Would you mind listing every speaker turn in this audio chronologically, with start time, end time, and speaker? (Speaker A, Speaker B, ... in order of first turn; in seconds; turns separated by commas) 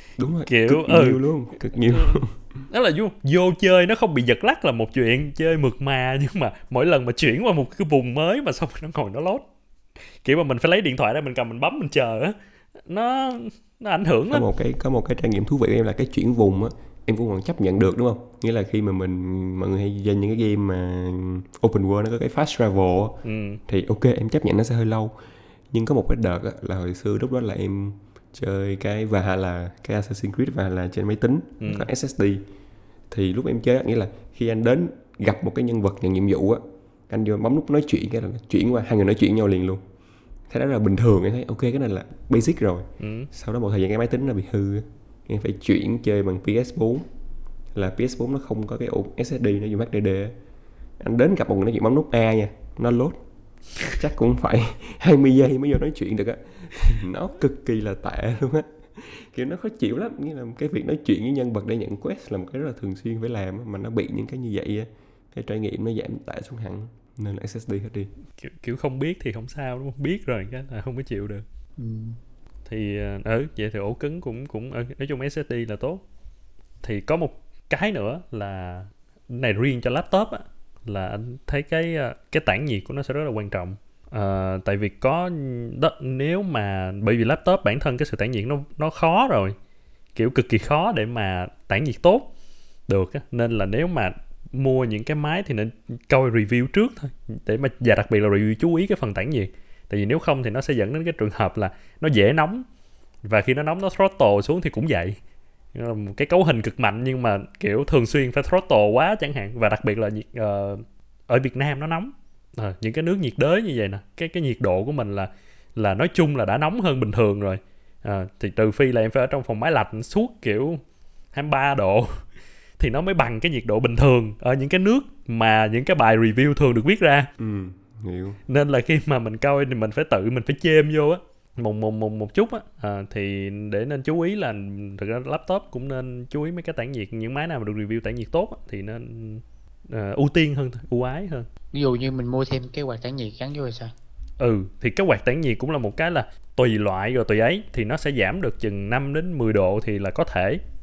Speaker A: 0.2-2.3, Speaker B: 0.5-1.2, Speaker B: 1.9-9.4, Speaker B: 10.2-12.3, Speaker B: 12.9-14.5, Speaker A: 14.3-25.2, Speaker B: 23.2-23.6, Speaker A: 25.7-32.4, Speaker B: 31.6-31.9, Speaker A: 33.1-39.8, Speaker A: 40.5-47.1, Speaker B: 43.0-43.3, Speaker A: 47.8-50.4, Speaker A: 51.0-53.2, Speaker A: 53.9-68.1, Speaker B: 68.4-71.5, Speaker C: 71.8-72.2, Speaker B: 72.7-76.0, Speaker B: 76.8-89.6, Speaker B: 90.2-92.3, Speaker B: 92.9-102.7, Speaker B: 103.2-105.2, Speaker B: 105.7-120.8, Speaker B: 121.3-122.2, Speaker B: 122.8-127.3, Speaker A: 127.4-128.4, Speaker B: 128.5-141.5, Speaker C: 141.7-143.9, Speaker B: 144.4-150.6